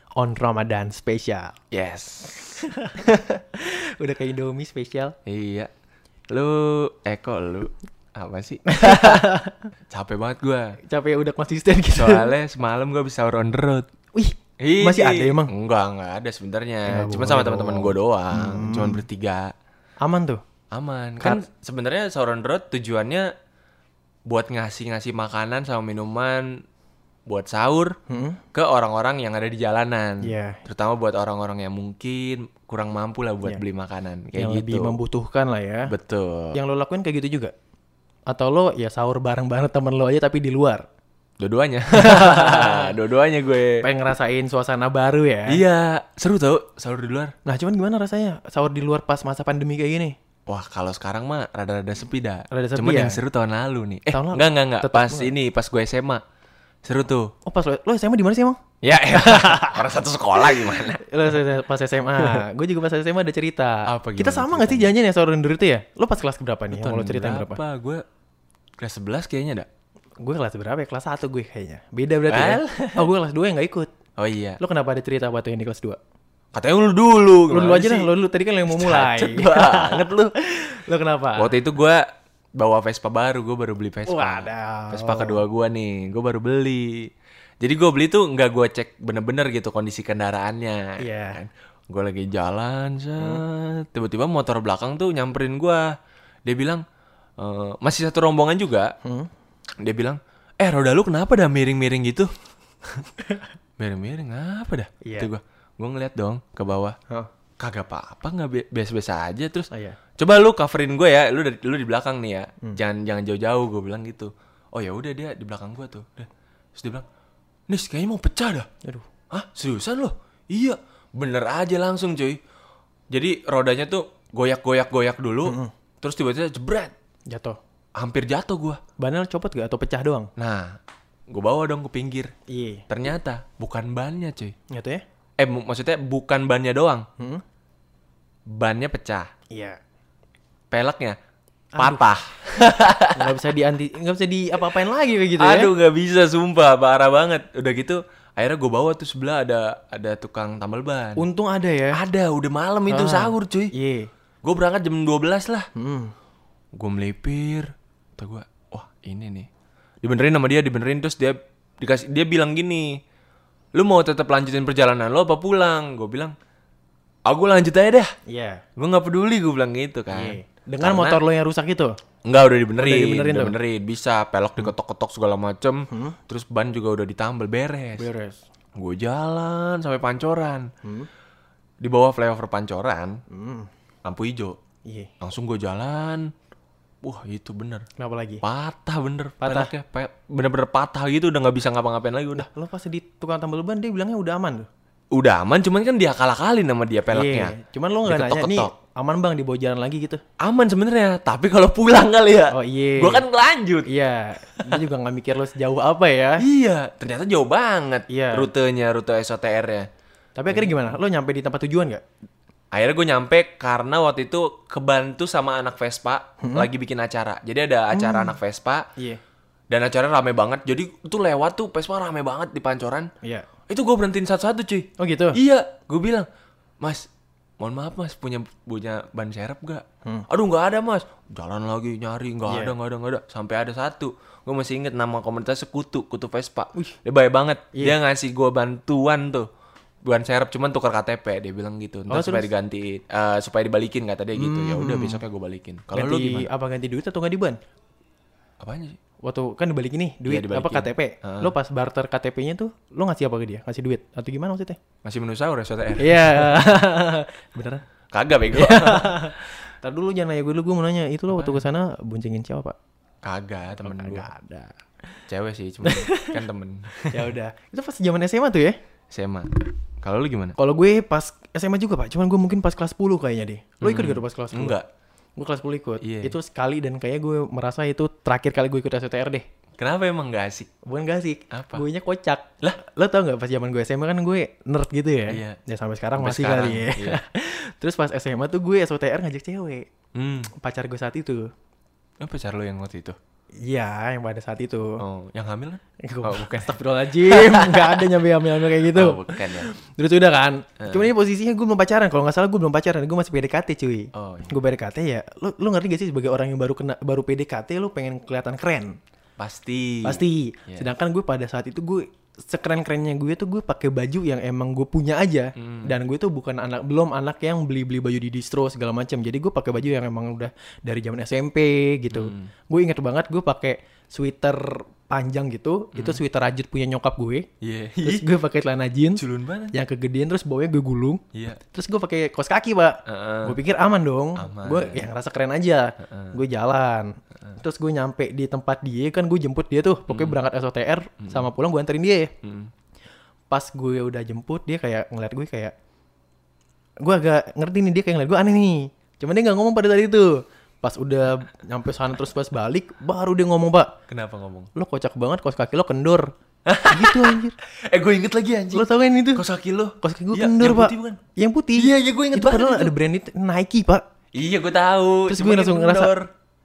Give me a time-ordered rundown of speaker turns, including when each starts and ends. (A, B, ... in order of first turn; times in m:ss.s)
0:00.2-0:01.6 A
0:01.7-0:02.6 B
0:02.4-0:05.2 A
0:05.2-0:05.7 B
0:06.3-0:09.3 B
0:08.7-0:09.7 A
0:09.9-0:10.8 B
0:10.8-0:12.3 A
0:11.9-0:13.8 B
0:14.1-0:15.5 A
0:14.6-0:19.5 B
0:16.9-0:19.0 A
0:20.0-0:20.4 A
0:20.7-0:23.3 B
0:24.3-0:26.6 B
0:27.3-0:28.0 B
0:28.1-0:28.4 A
0:28.5-0:35.0 B
0:30.2-0:30.6 A
0:34.4-0:35.9 A
0:35.9-0:36.6 B
0:36.5-0:37.5 A
0:38.3-0:40.8 A
0:41.4-0:43.8 B
0:41.9-0:42.9 A
0:43.8-0:45.6 A
0:45.5-0:47.3 B
0:47.4-0:50.2 A
0:50.5-0:56.2 B
0:52.5-0:53.2 A
0:54.1-0:55.3 A
0:56.8-0:57.3 B
0:57.4-0:58.6 A
0:58.8-1:01.0 B
0:59.1-0:59.9 A
1:00.5-1:07.6 A
1:02.2-1:02.4 B
1:03.9-1:04.9 B
1:06.7-1:08.0 B
1:08.8-1:09.7 B
1:10.2-1:13.9 A
1:12.3-1:13.1 B
1:14.2-1:14.6 B
1:14.6-1:16.0 A
1:16.5-1:18.1 B
1:17.5-1:21.5 A
1:18.7-1:20.3 B
1:21.4-1:22.0 B
1:22.6-1:27.1 B
1:24.1-1:25.4 A
1:27.6-1:35.9 B
1:31.0-1:31.4 A
1:36.4-1:36.8 B
1:37.4-1:38.9 B
1:39.0-1:39.3 A
1:39.8-1:42.3 B
1:42.8-1:43.1 B
1:43.8-1:47.0 B
1:45.0-1:45.3 A
1:47.6-1:57.0 B
1:49.7-1:50.0 A
1:57.7-1:58.7 B
1:59.3-2:02.4 B
2:03.1-2:06.9 B
2:05.4-2:05.7 A
2:07.3-2:07.6 A
2:08.0-2:08.8 B
2:09.0-2:10.3 A
2:10.4-2:10.8 B
2:11.3-2:12.3 B
2:12.5-2:12.8 A
2:12.9-2:14.5 B
2:14.7-2:15.0 A
2:15.4-2:17.0 B
2:18.5-2:19.3 B
2:20.7-2:21.2 B
2:21.7-2:22.0 A
2:21.8-2:23.4 B
2:23.1-2:25.7 A
2:25.4-2:31.2 B
2:31.2-2:32.0 A
2:31.9-2:33.7 B
2:32.9-2:34.1 A
2:34.4-2:35.7 B
2:35.7-2:36.1 A
2:36.8-2:39.5 B
2:40.0-2:43.0 B
2:43.7-2:46.3 B
2:47.2-2:48.1 B
2:48.3-2:48.6 A
2:48.8-2:51.2 B
2:50.1-2:51.9 A
2:52.2-2:58.1 B
2:52.8-2:53.5 A
2:55.9-2:56.2 A
2:58.0-2:58.4 A
2:58.8-3:00.7 B
3:00.8-3:01.1 A
3:01.8-3:03.2 B
3:03.3-3:03.7 A
3:04.0-3:04.6 B
3:04.8-3:05.1 A
3:05.2-3:06.3 B
3:07.0-3:07.8 B
3:08.0-3:08.4 A
3:08.4-3:12.5 B
3:09.4-3:09.7 A
3:12.4-3:14.7 A
3:15.1-3:17.5 B
3:17.1-3:20.2 A
3:18.1-3:18.7 B
3:20.4-3:23.9 B
3:22.5-3:23.2 A
3:23.9-3:26.4 A
3:24.5-3:24.8 B
3:26.4-3:29.9 B
3:28.1-3:28.5 A
3:30.4-3:32.0 A
3:30.5-3:30.9 B
3:32.7-3:38.9 B
3:36.4-3:36.7 A
3:37.9-3:38.4 A
3:39.7-3:43.1 B
3:43.7-3:46.3 B
3:45.0-3:45.4 A
3:46.8-3:47.1 B
3:47.6-3:59.5 B
3:52.5-3:52.7 A
4:00.0-4:06.5 B
4:02.1-4:02.5 A
4:04.4-4:05.2 A
4:05.9-4:07.6 A
4:08.6-4:09.0 B
4:09.2-4:14.8 A
4:10.2-4:11.5 B
4:15.0-4:16.7 B
4:16.0-4:17.8 A
4:18.1-4:19.3 B
4:18.5-4:22.8 A
4:21.3-4:21.6 B
4:23.2-4:24.3 B
4:23.8-4:24.7 A
4:25.3-4:27.3 B
4:25.8-4:26.4 A
4:27.1-4:28.8 A
4:29.1-4:29.5 B
4:30.0-4:30.5 B
4:30.6-4:34.8 A
4:33.8-4:34.8 B
4:35.4-4:39.4 A
4:36.0-4:36.3 B
4:39.8-4:40.7 B
4:40.8-4:49.9 A
4:41.5-4:41.8 B
4:45.3-4:45.6 B
4:46.2-4:47.2 B
4:50.1-4:50.5 B
4:50.6-4:51.5 A
4:52.2-4:53.2 B
4:53.6-4:55.0 A
4:55.0-4:59.7 B
4:56.0-5:09.0 A
5:00.8-5:01.1 B
5:04.1-5:04.6 B
5:09.4-5:10.9 B
5:10.0-5:27.5 A
5:15.6-5:15.9 B
5:22.1-5:22.5 B
5:25.9-5:26.2 B
5:27.6-5:28.3 B
5:28.0-5:42.3 A
5:29.2-5:29.8 B
5:31.3-5:31.6 B
5:33.1-5:33.6 B
5:34.4-5:35.1 B
5:36.0-5:36.3 B
5:40.1-5:40.4 B
5:42.4-5:42.7 B
5:43.5-5:45.7 A
5:47.0-5:53.9 A
5:54.1-5:54.7 B
5:54.7-5:56.3 A
5:56.6-6:01.2 B
5:56.9-5:57.5 A
5:58.7-5:59.4 A
6:00.0-6:04.0 A
6:01.8-6:02.9 B
6:04.3-6:06.3 B
6:05.3-6:06.1 A